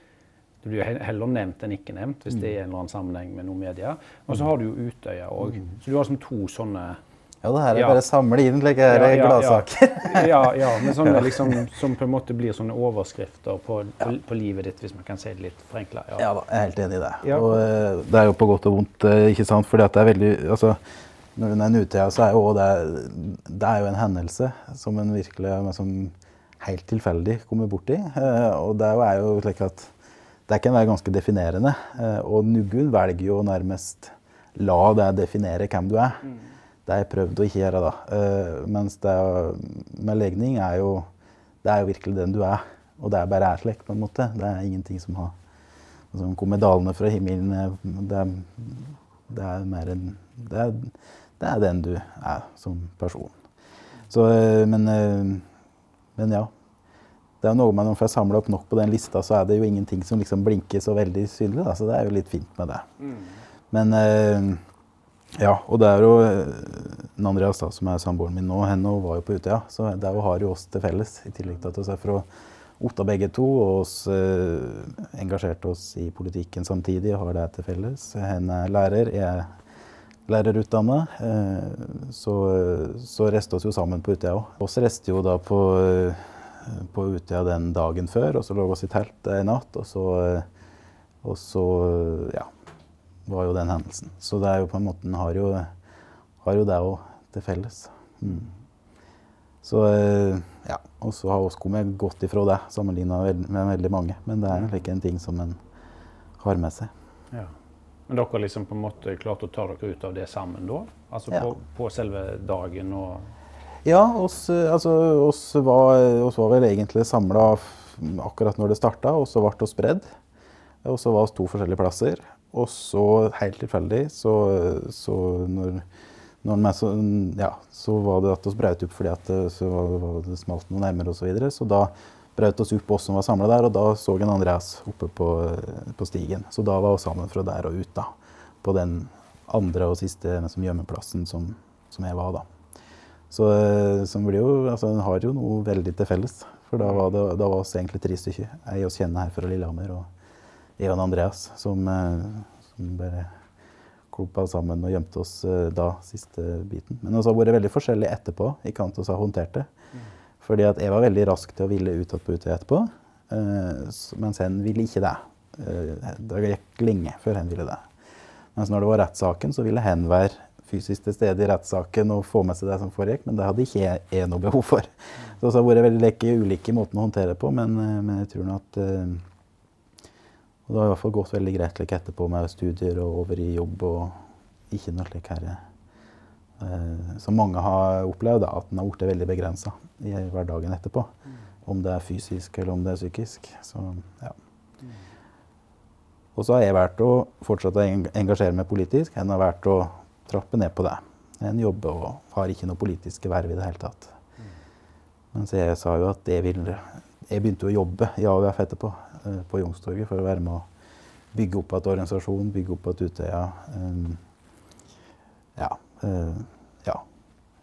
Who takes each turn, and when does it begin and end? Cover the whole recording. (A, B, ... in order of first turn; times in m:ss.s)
0:00.6-0:07.0 A
0:07.4-0:11.5 B
0:07.7-0:08.0 A
0:08.9-0:16.3 A
0:16.2-0:20.8 B
0:17.2-0:17.6 A
0:21.4-0:29.9 B
0:30.5-0:36.3 B
0:36.9-0:41.1 B
0:41.6-0:45.4 B
0:46.1-0:53.4 B
0:54.1-0:55.4 B
0:56.2-0:56.5 B
0:57.4-1:03.0 B
1:03.7-1:04.6 B
1:05.4-1:12.3 B
1:12.8-1:19.5 B
1:20.3-1:30.5 B
1:31.2-1:32.5 B
1:33.3-1:35.7 B
1:36.4-1:38.5 B
1:39.6-1:45.6 B
1:46.4-1:46.9 B
1:48.1-1:53.4 A
1:53.8-2:00.1 B
2:00.8-2:05.8 B
2:06.4-2:18.1 B
2:18.6-2:22.4 B
2:23.3-2:30.1 B
2:26.8-2:27.1 A
2:30.8-2:33.3 B
2:34.1-2:39.7 B
2:40.4-2:47.9 B
2:48.6-2:59.2 B
3:00.7-3:04.2 B
3:04.7-3:05.6 B
3:06.6-3:11.1 B
3:11.6-3:14.4 B
3:16.4-3:24.2 B
3:25.3-3:30.7 B
3:31.3-3:34.2 B
3:35.6-3:37.0 B